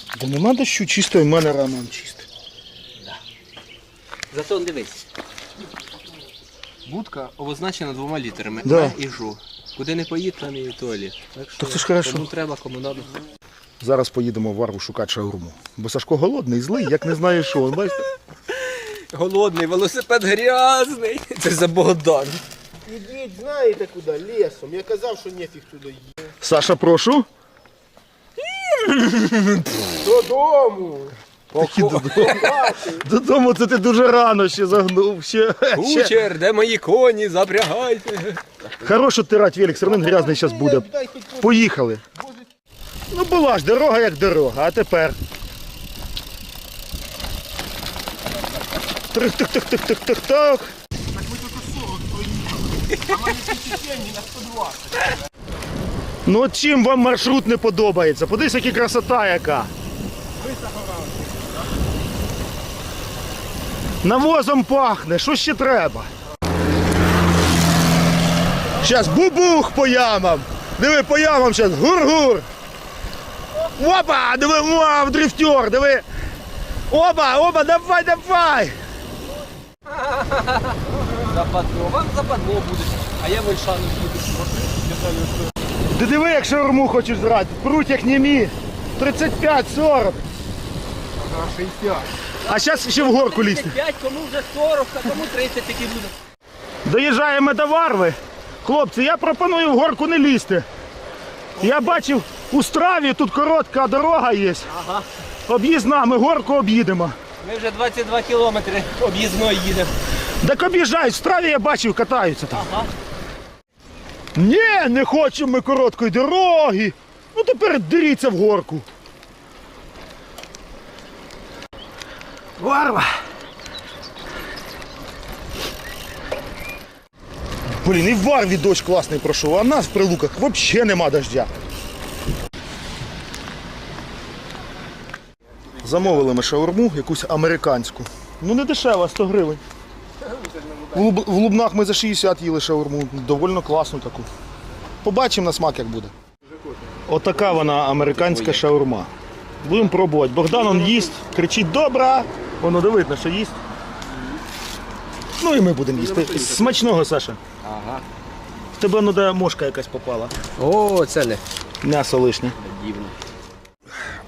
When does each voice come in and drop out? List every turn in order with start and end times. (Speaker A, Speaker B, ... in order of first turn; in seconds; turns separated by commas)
Speaker A: 0.1-2.3, Speaker B: 4.3-5.0, Speaker B: 6.8-13.1, Speaker A: 8.6-8.9, Speaker A: 11.6-12.3, Speaker A: 13.8-18.0, Speaker B: 18.5-22.4, Speaker C: 22.8-26.2, Speaker A: 26.4-27.2, Speaker B: 28.4-29.4, Speaker C: 30.0-31.1, Speaker B: 31.5-32.7, Speaker A: 31.5-36.1, Speaker C: 32.1-33.0, Speaker B: 35.8-38.4, Speaker A: 38.8-40.9, Speaker C: 39.8-41.6, Speaker A: 41.4-42.0, Speaker C: 42.2-42.4, Speaker A: 43.1-45.2, Speaker A: 49.1-50.7, Speaker C: 51.1-55.2, Speaker A: 56.2-59.7, Speaker C: 60.3-61.6, Speaker A: 64.0-66.1, Speaker A: 68.8-72.5, Speaker A: 73.7-76.0, Speaker A: 76.9-78.8, Speaker B: 79.9-84.7, Speaker C: 84.7-85.5, Speaker A: 85.9-90.2, Speaker C: 91.2-92.1, Speaker B: 92.4-96.1, Speaker A: 92.5-93.8, Speaker A: 96.8-100.7, Speaker B: 101.5-102.0, Speaker A: 101.6-104.7, Speaker B: 104.7-105.0, Speaker A: 105.5-107.2, Speaker B: 107.4-109.9, Speaker A: 110.4-112.7, Speaker B: 112.5-112.9, Speaker A: 114.3-118.8, Speaker A: 122.6-123.1, Speaker A: 127.8-131.5, Speaker A: 135.8-139.6, Speaker C: 140.2-141.1, Speaker A: 140.9-144.3, Speaker A: 145.0-146.1, Speaker C: 146.4-147.0, Speaker A: 147.1-149.1, Speaker B: 148.1-148.6, Speaker A: 149.6-153.6, Speaker C: 150.4-151.1, Speaker C: 154.0-154.4, Speaker A: 155.4-157.4, Speaker C: 155.9-156.9, Speaker B: 157.6-158.0, Speaker A: 158.8-160.3, Speaker B: 160.6-161.4, Speaker A: 161.8-162.6, Speaker B: 162.6-163.2